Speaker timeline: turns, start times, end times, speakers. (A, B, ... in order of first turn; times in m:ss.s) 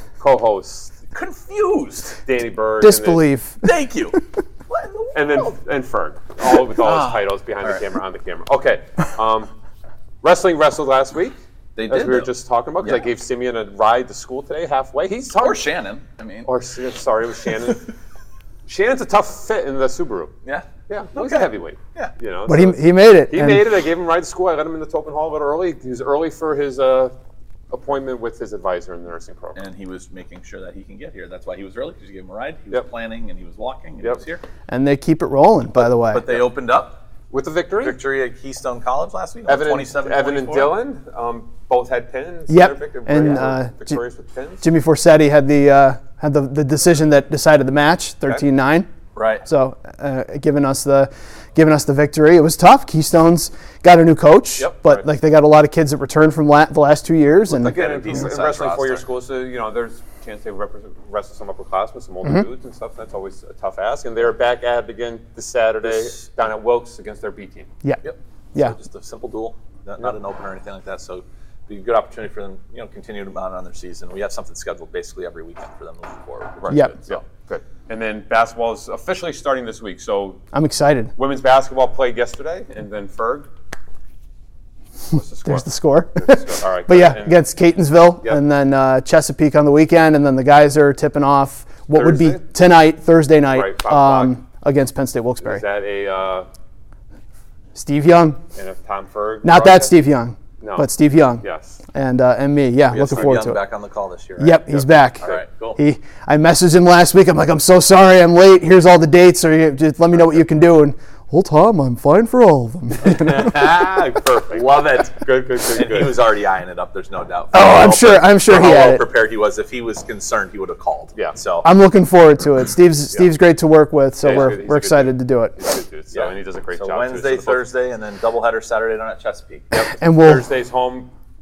0:00.2-0:00.9 A
0:01.1-0:02.2 B
0:02.3-0:03.3 A
0:02.8-0:03.8 C
0:03.6-0:04.2 B
0:04.7-0:05.6 B
0:05.1-0:09.5 A
0:06.5-0:07.9 B
0:10.2-0:11.4 A
0:11.8-0:13.1 B
0:11.9-0:15.7 A
0:15.4-0:16.5 B
0:16.5-0:17.8 A
0:18.7-0:20.3 A
0:20.4-0:22.1 B
0:20.9-0:27.1 A
0:22.5-0:23.7 C
0:27.7-0:29.6 A
0:29.6-0:34.4 B
0:34.7-0:36.3 C
0:36.0-0:37.0 B
0:37.3-0:38.0 A
0:37.8-0:40.8 B
0:39.5-0:44.6 A
0:42.5-0:44.0 C
0:44.6-0:48.9 C
0:49.2-0:49.4 B
0:49.4-0:58.3 C
0:54.6-0:55.1 B
0:57.5-0:59.0 B
0:57.6-1:07.7 A
1:05.8-1:06.2 B
1:08.0-1:17.2 B
1:16.6-1:20.4 A
1:16.7-1:16.9 C
1:20.5-1:21.1 C
1:21.2-1:23.5 A
1:25.1-1:25.6 A
1:25.4-1:35.6 C
1:26.2-1:27.4 A
1:31.9-1:32.4 A
1:33.5-1:34.3 A
1:35.4-1:36.5 A
1:37.8-1:38.4 C
1:38.6-1:40.0 A
1:39.4-1:43.6 C
1:40.6-1:40.9 A
1:41.4-1:41.8 A
1:42.9-1:45.8 B
1:44.4-1:53.6 C
1:53.0-1:56.2 A
1:54.5-2:01.7 B
1:57.5-1:59.1 C
2:01.6-2:05.6 C
2:04.2-2:07.7 A
2:06.1-2:09.7 B
2:09.7-2:11.1 A
2:09.9-2:10.5 C